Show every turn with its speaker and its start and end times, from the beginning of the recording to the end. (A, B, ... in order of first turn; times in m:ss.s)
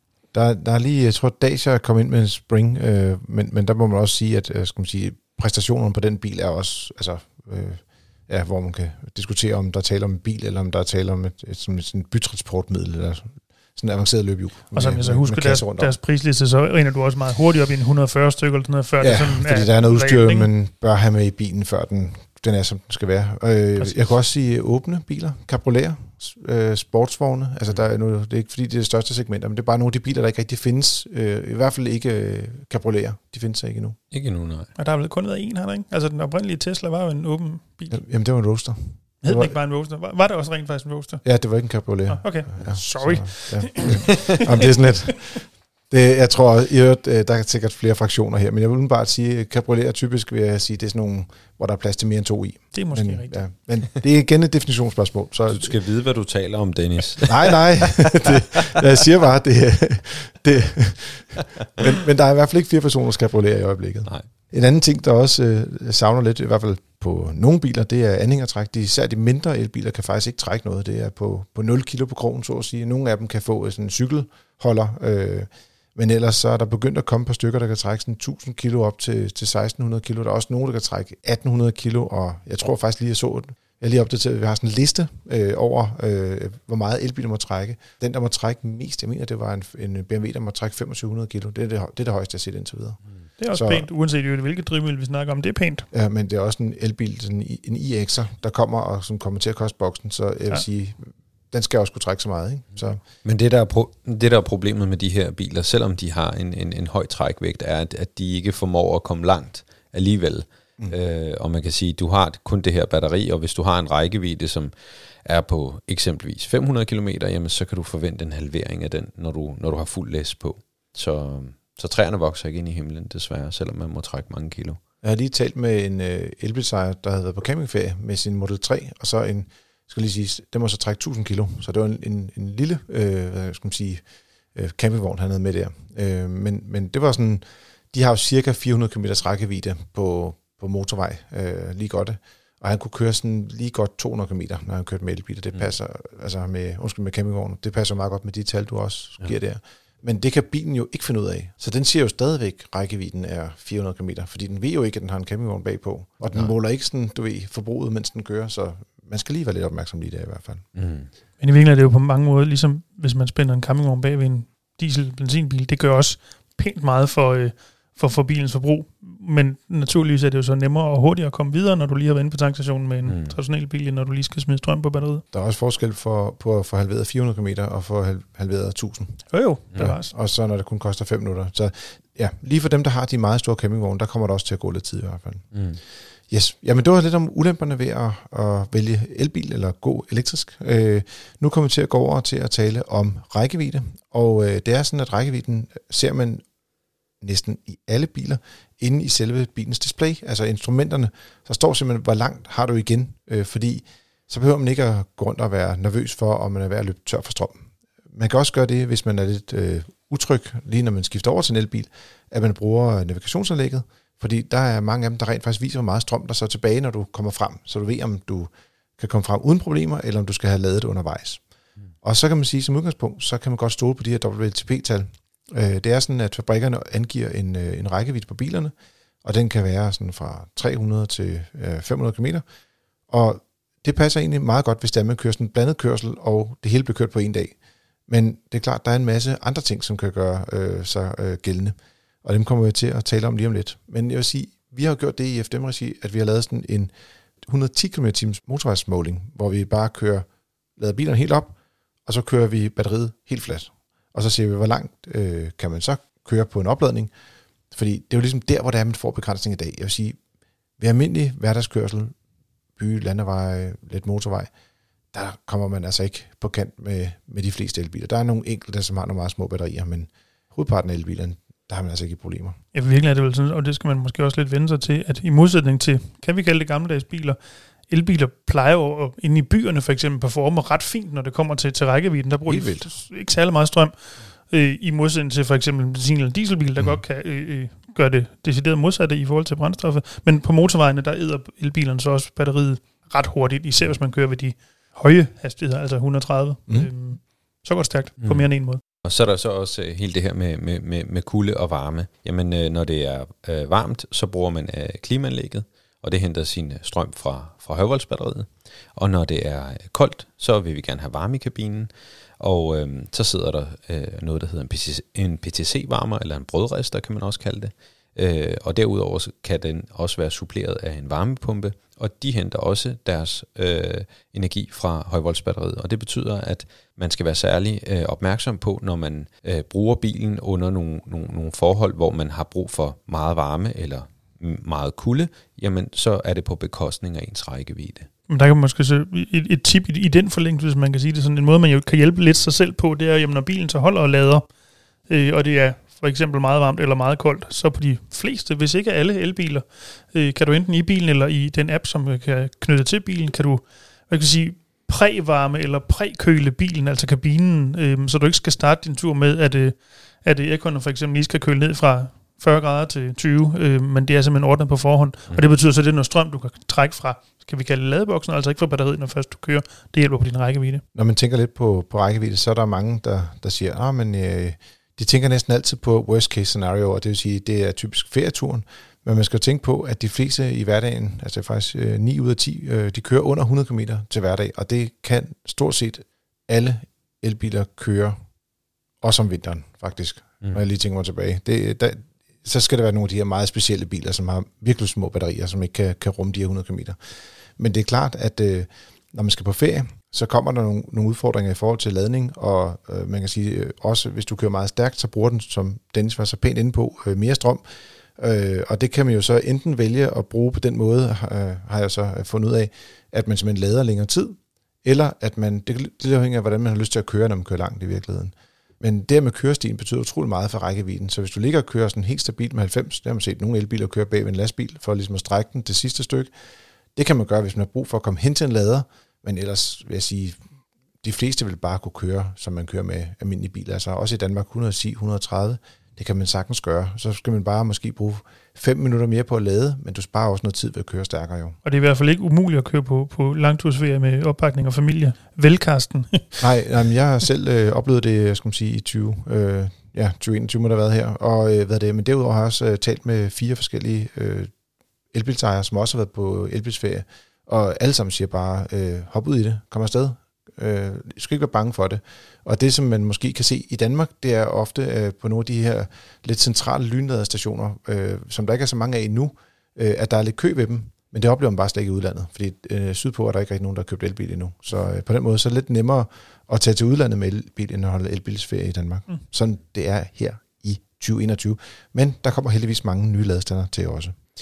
0:00.3-0:15.9 A
0:14.7-0:20.5 B
0:19.0-0:34.0 A
0:34.1-0:34.7 C
0:34.8-0:38.0 B
0:37.9-0:39.6 A
0:39.2-0:41.2 B
0:41.2-0:55.8 A
0:42.1-0:44.5 B
0:52.7-0:53.4 B
0:55.5-0:58.3 C
0:57.3-1:33.0 A
1:33.4-1:35.8 B
1:33.5-1:33.9 A
1:35.9-1:43.0 A
1:43.2-1:54.7 C
1:55.2-2:04.8 C
2:05.0-2:14.0 A
2:14.5-2:40.6 A
2:40.7-2:41.1 C
2:41.4-2:55.2 B
2:53.0-2:53.4 C
2:55.3-3:05.5 A
2:59.3-3:00.1 B
3:05.5-3:05.8 C
3:06.3-3:16.4 A
3:17.2-3:27.6 A
3:28.1-3:41.4 A
3:42.0-3:52.4 A
3:53.1-3:57.6 A
3:58.1-4:06.9 A
4:07.4-4:10.2 A
4:10.8-4:11.5 A
4:12.0-4:17.1 A
4:17.7-4:20.2 A
4:20.8-4:22.1 A
4:22.8-4:24.5 A
4:25.1-4:32.6 A
4:32.7-4:58.8 B
4:42.5-4:42.9 A
4:58.2-4:58.5 C
4:59.0-5:38.1 C
5:38.3-5:44.5 B
5:45.1-6:10.8 B
6:10.9-6:28.2 A
6:29.0-6:37.0 A
6:37.6-6:47.6 A
6:48.2-7:06.3 A
7:06.9-7:10.4 A
7:11.0-7:21.6 A
7:21.6-7:26.4 B
7:26.4-7:34.5 A
7:35.1-8:04.2 A